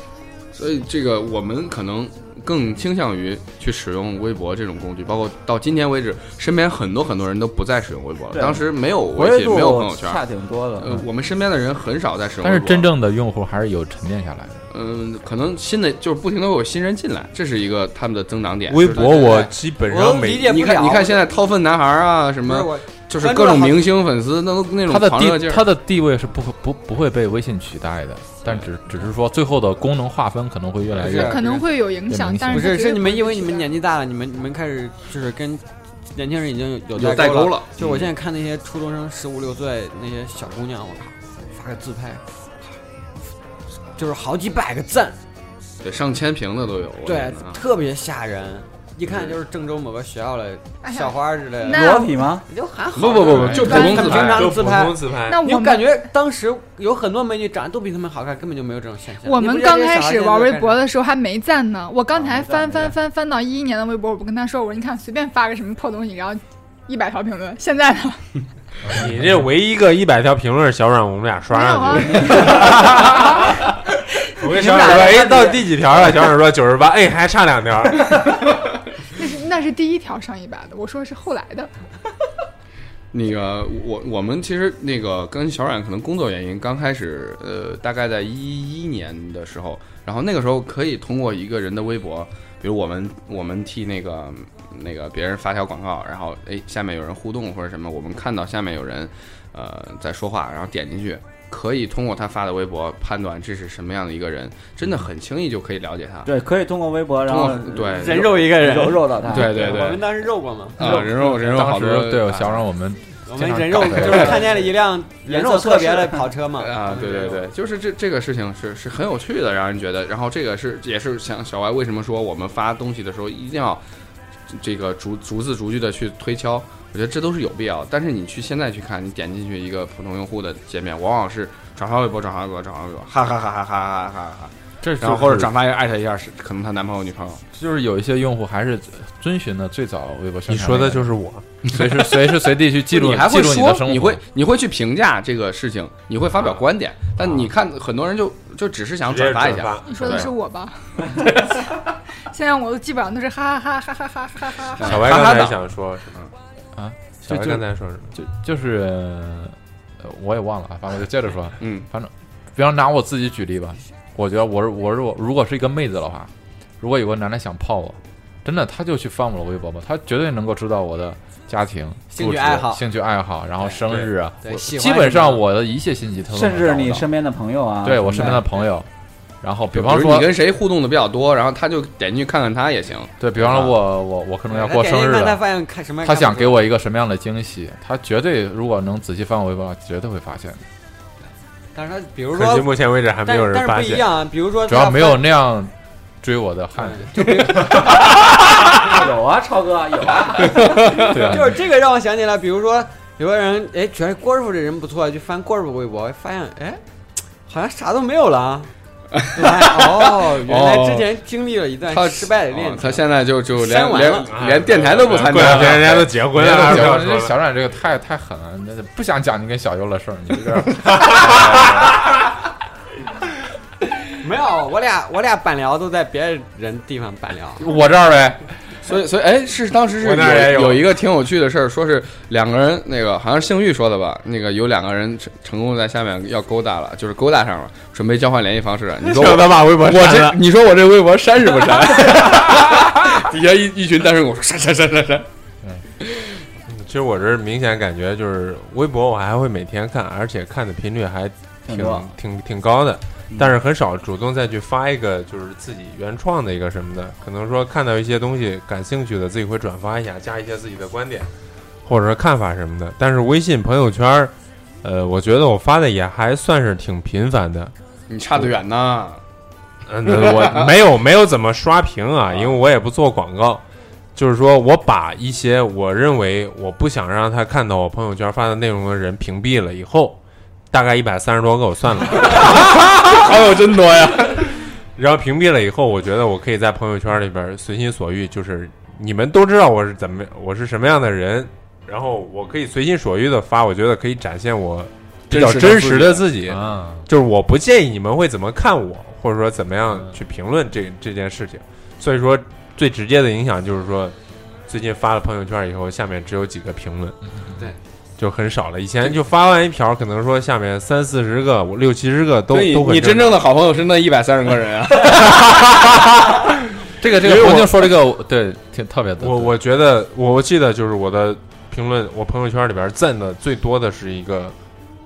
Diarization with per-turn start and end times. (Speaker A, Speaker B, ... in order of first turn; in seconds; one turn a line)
Speaker A: 0.5-10.2
Speaker B: 8.3-11.0
Speaker A: 10.8-12.9
Speaker C: 12.4-14.6
Speaker A: 14.7-19.4
Speaker D: 18.7-20.5
Speaker E: 18.9-21.3
Speaker A: 20.4-25.6
Speaker E: 22.4-23.9
Speaker C: 24.9-31.4
Speaker E: 30.9-31.6
Speaker F: 31.2-33.7
Speaker C: 32.1-32.7
Speaker E: 32.5-42.2
Speaker A: 36.9-38.1
Speaker E: 44.0-45.2
Speaker A: 45.8-47.6
Speaker E: 47.0-60.8
Speaker A: 49.0-49.4
Speaker F: 50.8-52.1
Speaker B: 51.7-52.5
Speaker A: 52.9-54.5
Speaker D: 53.3-55.4
Speaker F: 53.6-54.2
Speaker F: 55.3-55.9
Speaker F: 59.2-68.3
Speaker B: 62.2-62.8
Speaker D: 68.9-73.6
Speaker F: 71.5-72.7
Speaker D: 74.4-78.2
Speaker B: 74.5-76.1
Speaker E: 74.8-75.3
Speaker F: 79.1-81.7
Speaker A: 83.1-106.3
Speaker B: 106.2-109.7
Speaker A: 107.3-108.3
Speaker E: 108.0-111.0
Speaker A: 109.3-110.1
Speaker A: 110.8-112.6
Speaker C: 110.8-114.3
Speaker E: 113.2-117.4
Speaker A: 114.0-114.3
Speaker B: 114.1-114.7
Speaker B: 115.2-116.3
Speaker A: 116.6-123.8
Speaker A: 124.5-137.4
Speaker C: 134.8-135.5
Speaker C: 137.5-144.2
Speaker D: 140.5-141.4
Speaker A: 142.9-150.3
Speaker D: 149.1-150.3
Speaker F: 149.8-151.1
Speaker F: 152.2-154.8
Speaker A: 154.8-155.6
Speaker D: 154.8-156.1
Speaker C: 156.8-177.1
Speaker D: 157.2-158.1
Speaker A: 161.6-161.8
Speaker E: 172.1-172.8
Speaker E: 174.4-175.4
Speaker B: 176.3-178.4
Speaker C: 177.8-178.9
Speaker C: 179.4-180.3
Speaker A: 179.7-183.7
Speaker C: 183.2-185.4
Speaker E: 184.5-186.7
Speaker C: 186.0-190.6
Speaker E: 191.7-192.7
Speaker D: 192.3-194.1
Speaker E: 193.2-195.2
Speaker C: 194.7-197.7
Speaker E: 196.8-197.8
Speaker B: 197.9-200.8
Speaker A: 200.5-201.1
Speaker E: 201.1-206.8
Speaker C: 201.1-201.6
Speaker E: 207.5-208.7
Speaker A: 209.1-211.1
Speaker E: 209.3-214.3
Speaker A: 211.9-216.1
Speaker D: 214.2-217.3
Speaker C: 215.3-221.9
Speaker D: 221.0-221.4
Speaker E: 224.2-227.6
Speaker C: 227.6-228.5
Speaker A: 228.8-245.3
Speaker D: 230.0-230.8
Speaker D: 239.0-240.4
Speaker D: 246.7-261.3
Speaker B: 251.7-252.1
Speaker D: 261.8-267.7
Speaker A: 268.1-269.2
Speaker D: 269.9-273.6
Speaker A: 270.1-270.7
Speaker A: 272.3-272.6
Speaker D: 274.1-280.2
Speaker D: 280.7-282.6
Speaker A: 282.2-284.5
Speaker D: 284.9-304.1
Speaker A: 295.3-296.2
Speaker C: 296.4-297.1
Speaker C: 299.9-300.1
Speaker D: 304.7-307.2
Speaker D: 308.2-313.4
Speaker A: 312.5-315.6
Speaker D: 315.1-316.3
Speaker C: 317.0-319.6
Speaker D: 317.2-317.8
Speaker D: 319.2-324.5